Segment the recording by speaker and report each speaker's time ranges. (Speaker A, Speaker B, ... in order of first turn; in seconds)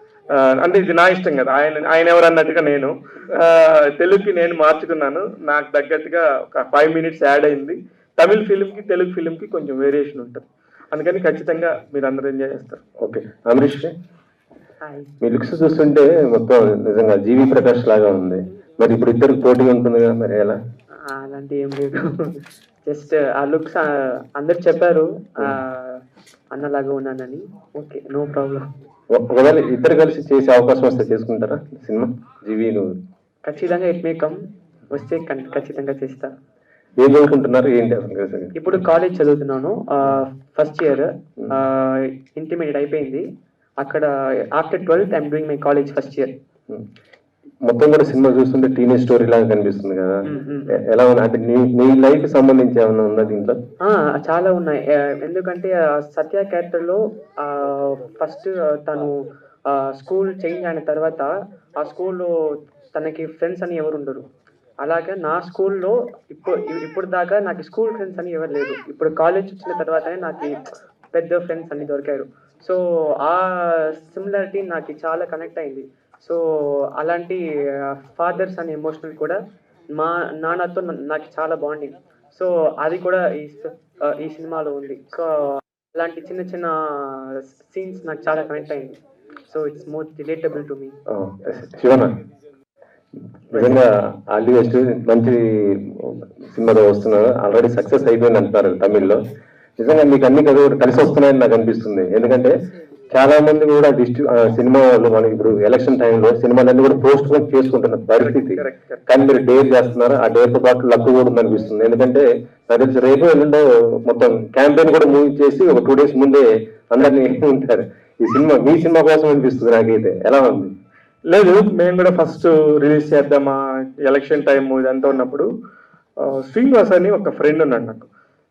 Speaker A: 0.3-12.8, 108.3-109.0, 121.3-125.5, 126.2-128.1
Speaker B: 13.0-13.9, 15.2-20.6, 29.1-33.0, 37.0-38.5, 47.6-53.6, 91.1-92.1, 93.5-99.2, 99.8-102.5, 103.1-120.7
Speaker C: 14.8-15.1, 21.1-26.0, 26.5-28.7, 33.5-34.4, 34.9-36.3, 38.6-43.2, 43.8-46.3, 50.2-50.7, 53.8-62.4, 62.9-64.2, 64.8-76.4, 77.0-79.4, 79.9-91.0